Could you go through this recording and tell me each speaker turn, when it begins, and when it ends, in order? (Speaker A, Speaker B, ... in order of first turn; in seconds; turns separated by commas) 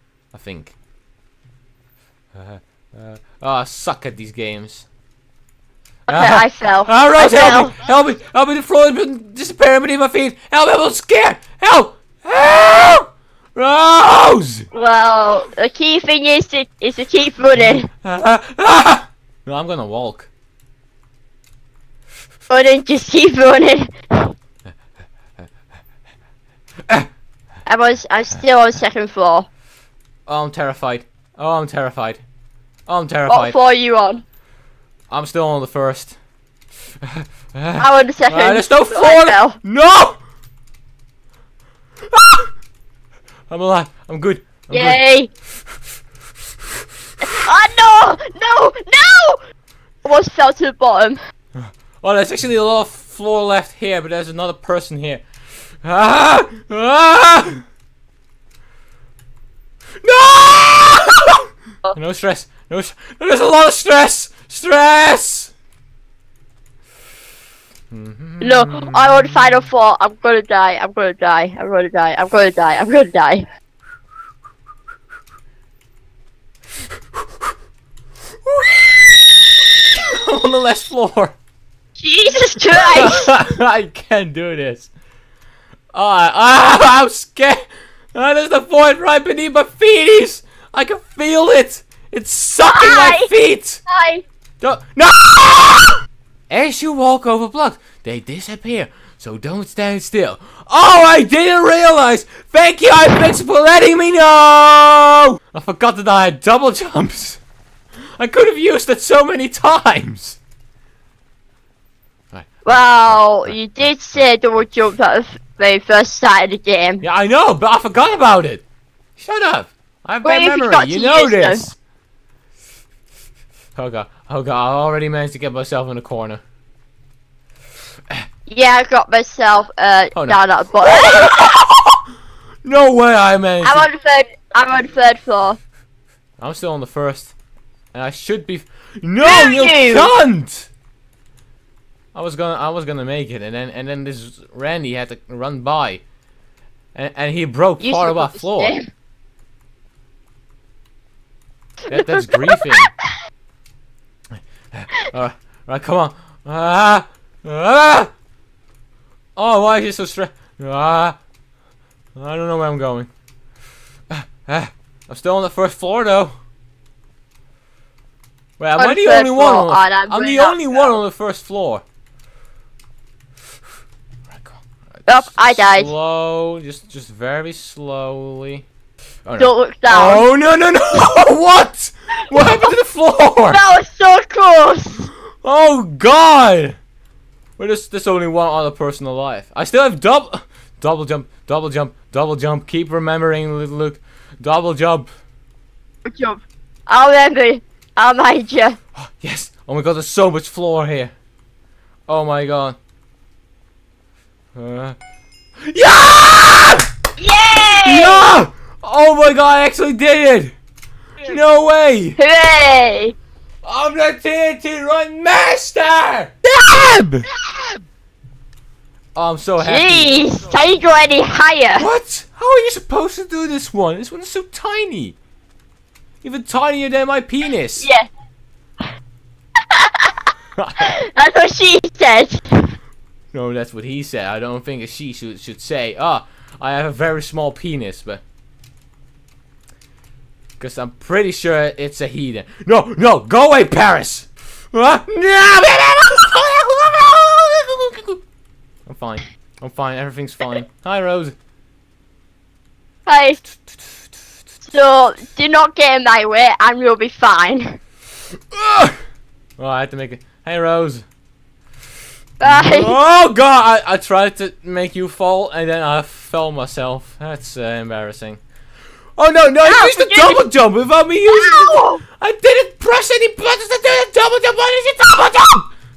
Speaker A: 0.3-0.7, Speaker A: 2.3-4.9, Speaker B: 6.1-7.7, Speaker A: 6.1-14.7, Speaker B: 14.7-17.9, Speaker A: 17.6-20.3, Speaker B: 22.5-24.3, Speaker B: 27.7-29.5, Speaker A: 30.3-32.2, Speaker A: 32.9-33.5, Speaker B: 33.3-34.2, Speaker A: 35.1-36.2, Speaker A: 37.0-40.2, Speaker B: 37.8-39.6, Speaker A: 42.1-42.5, Speaker A: 43.5-45.0, Speaker B: 44.7-45.3, Speaker B: 47.2-49.4, Speaker B: 50.0-51.2, Speaker A: 51.5-55.2, Speaker A: 55.8-57.6, Speaker A: 60.0-65.5, Speaker A: 67.9-69.4, Speaker B: 68.4-73.5, Speaker A: 78.5-81.4, Speaker B: 82.0-83.3, Speaker A: 82.7-84.9, Speaker A: 85.9-87.6, Speaker A: 88.1-93.8, Speaker B: 92.6-93.3, Speaker B: 93.9-94.2, Speaker A: 94.6-96.0, Speaker A: 96.5-107.4, Speaker A: 108.2-110.4, Speaker A: 112.3-114.2, Speaker B: 112.6-117.0, Speaker A: 117.0-118.6, Speaker A: 119.2-121.8, Speaker B: 120.2-121.6, Speaker A: 123.8-126.4, Speaker B: 128.5-131.6, Speaker A: 130.1-131.9, Speaker A: 132.6-133.9, Speaker B: 133.6-135.6, Speaker A: 136.4-137.3, Speaker A: 137.9-140.7, Speaker B: 139.2-140.1, Speaker A: 142.1-146.0, Speaker A: 146.9-148.8, Speaker B: 147.8-148.8, Speaker A: 151.9-152.9, Speaker B: 151.9-152.7, Speaker A: 154.7-158.1, Speaker A: 159.3-161.2, Speaker A: 162.2-163.1, Speaker A: 164.1-166.3, Speaker A: 168.6-171.8, Speaker B: 168.8-171.0, Speaker A: 174.3-178.7, Speaker B: 175.1-175.9, Speaker A: 179.2-183.6, Speaker B: 179.4-180.2, Speaker B: 183.5-185.1, Speaker A: 185.4-186.8, Speaker A: 187.6-195.1, Speaker B: 196.1-198.8, Speaker A: 199.0-201.1, Speaker A: 202.1-202.8, Speaker A: 204.5-205.0, Speaker A: 205.6-206.9, Speaker B: 207.2-208.3, Speaker A: 207.8-210.5, Speaker A: 211.2-212.2, Speaker B: 212.2-213.1, Speaker A: 213.6-217.3, Speaker A: 219.1-220.2, Speaker B: 219.6-221.9, Speaker A: 221.8-225.2, Speaker A: 226.2-227.9, Speaker B: 227.8-228.1, Speaker B: 229.7-230.1, Speaker A: 230.6-230.9, Speaker B: 230.8-232.7, Speaker A: 233.3-238.2, Speaker A: 240.6-248.2, Speaker A: 248.9-251.3, Speaker B: 253.1-253.4, Speaker B: 254.6-257.8, Speaker A: 258.5-259.0, Speaker A: 259.6-261.1, Speaker B: 262.4-262.9, Speaker A: 262.4-268.4, Speaker A: 269.2-275.7, Speaker B: 269.6-270.4, Speaker B: 271.3-272.0